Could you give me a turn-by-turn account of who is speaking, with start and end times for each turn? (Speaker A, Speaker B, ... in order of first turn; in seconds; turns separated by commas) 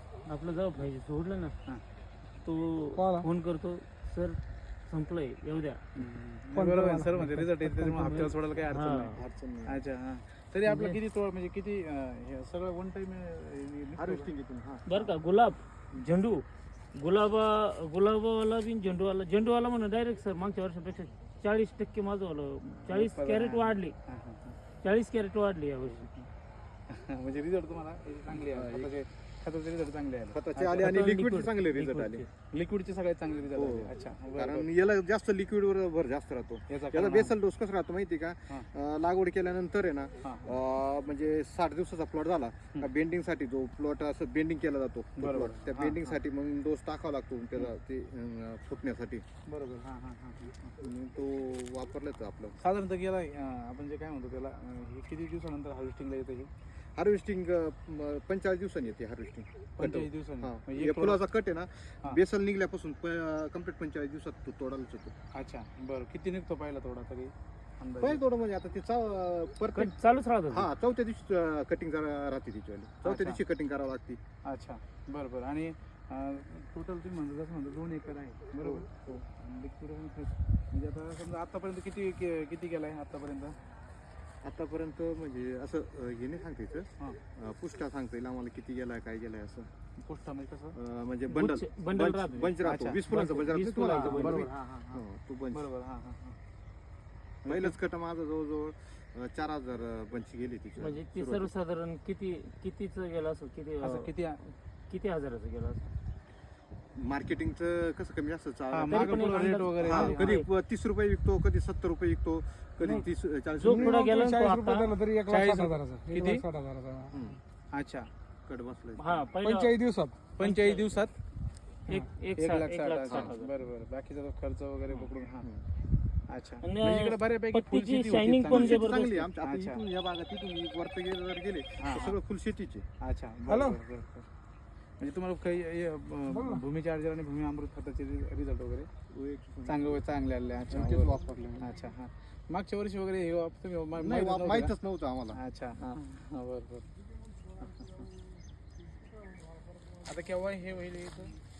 Speaker A: 0.3-1.6, Speaker A: 2.4-5.8, Speaker B: 3.0-3.3, Speaker C: 6.0-14.3, Speaker B: 6.5-8.2, Speaker A: 8.2-9.2, Speaker D: 9.1-9.8, Speaker A: 10.7-11.0, Speaker D: 14.0-15.1, Speaker A: 14.9-16.4, Speaker A: 16.9-23.9, Speaker C: 22.9-24.6, Speaker A: 24.8-26.1, Speaker C: 26.9-31.1, Speaker D: 28.3-28.9, Speaker D: 30.3-32.2, Speaker A: 30.8-32.3, Speaker C: 32.5-34.7, Speaker D: 33.5-49.2, Speaker C: 36.7-37.3, Speaker C: 40.2-40.5, Speaker C: 45.2-46.2, Speaker C: 49.5-50.7, Speaker D: 50.8-52.6, Speaker C: 52.6-56.5, Speaker D: 57.0-65.2, Speaker C: 59.8-61.2, Speaker C: 65.3-68.2, Speaker D: 68.0-69.9, Speaker A: 69.7-70.7, Speaker D: 70.5-74.2, Speaker C: 73.0-73.4, Speaker C: 74.5-83.6, Speaker D: 84.4-89.7, Speaker C: 90.0-90.8, Speaker D: 90.7-95.7, Speaker A: 91.3-94.5, Speaker C: 92.6-96.4, Speaker C: 97.5-97.8, Speaker D: 97.5-101.5, Speaker A: 100.8-104.1, Speaker C: 103.8-104.5, Speaker A: 104.9-105.9, Speaker D: 107.0-114.0, Speaker C: 108.7-110.4, Speaker A: 108.9-110.5, Speaker A: 113.6-115.0, Speaker B: 113.6-117.2, Speaker C: 115.2-116.5, Speaker D: 117.1-117.4, Speaker C: 117.7-118.1, Speaker D: 118.5-119.3, Speaker A: 119.0-119.8, Speaker B: 119.4-120.2, Speaker C: 120.4-121.2, Speaker A: 120.4-120.9, Speaker A: 121.9-123.5, Speaker C: 121.9-125.5, Speaker D: 123.1-123.3, Speaker C: 126.3-128.9, Speaker A: 126.6-129.3, Speaker D: 128.5-132.9, Speaker C: 129.4-129.8, Speaker C: 131.8-132.2, Speaker C: 133.0-134.3, Speaker B: 133.5-133.8, Speaker C: 135.0-138.9, Speaker B: 136.3-136.6, Speaker D: 139.1-140.1, Speaker C: 139.7-144.8, Speaker D: 140.7-141.7, Speaker D: 144.0-145.4, Speaker C: 145.3-146.9, Speaker C: 150.0-151.4